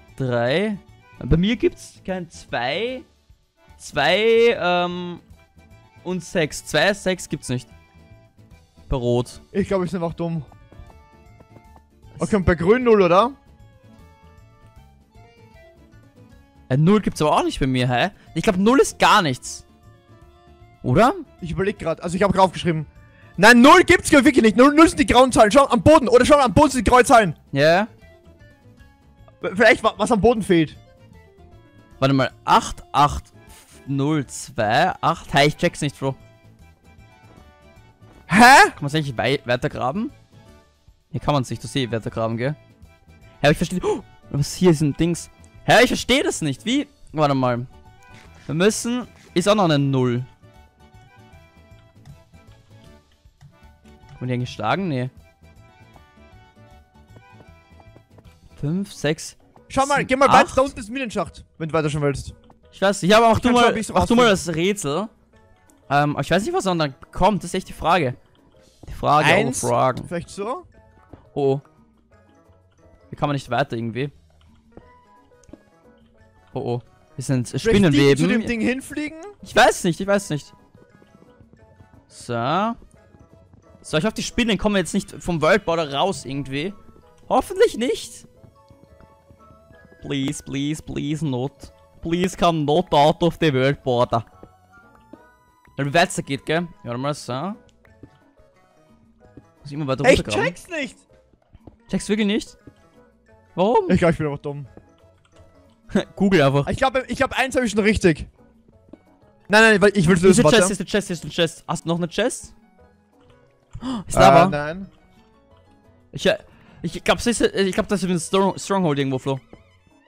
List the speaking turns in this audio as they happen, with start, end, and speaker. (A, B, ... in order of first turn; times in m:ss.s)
0:00.2-0:03.1 A
0:03.8-0:05.2 A
0:06.0-0:07.7 A
0:08.9-0:09.4 A
0:09.5-0:10.4 B
0:12.2-0:13.4 B
0:16.7-0:19.6 A
0:20.8-0:21.2 A
0:21.4-0:27.4 B
0:27.5-0:27.9 A
0:29.4-0:30.8 B
0:32.0-0:36.2 A
0:38.3-0:38.7 B
0:38.8-0:40.1 A
0:41.1-0:42.6 A
0:43.4-0:47.7 A
0:48.5-0:50.3 A
0:54.2-0:55.1 A
0:58.6-1:00.7 A
0:59.7-1:02.3 B
1:02.7-1:05.1 A
1:03.4-1:04.4 B
1:05.9-1:08.2 A
1:08.9-1:10.1 A
1:09.2-1:10.6 B
1:11.3-1:11.6 A
1:13.1-1:14.1 A
1:16.5-1:18.5 A
1:17.6-1:19.3 B
1:19.4-1:20.5 A
1:22.1-1:22.8 A
1:23.8-1:26.7 A
1:27.3-1:28.2 A
1:30.0-1:34.2 A
1:35.8-1:37.6 A
1:39.6-1:40.6 A
1:40.0-1:41.0 B
1:41.9-1:42.6 A
1:43.5-1:44.0 A
1:43.9-1:44.7 B
1:45.9-1:46.7 A
1:46.6-1:48.3 B
1:49.5-1:50.7 B
1:50.1-1:52.5 A
1:53.8-1:54.5 A
1:54.1-1:54.9 B
1:56.1-1:59.4 A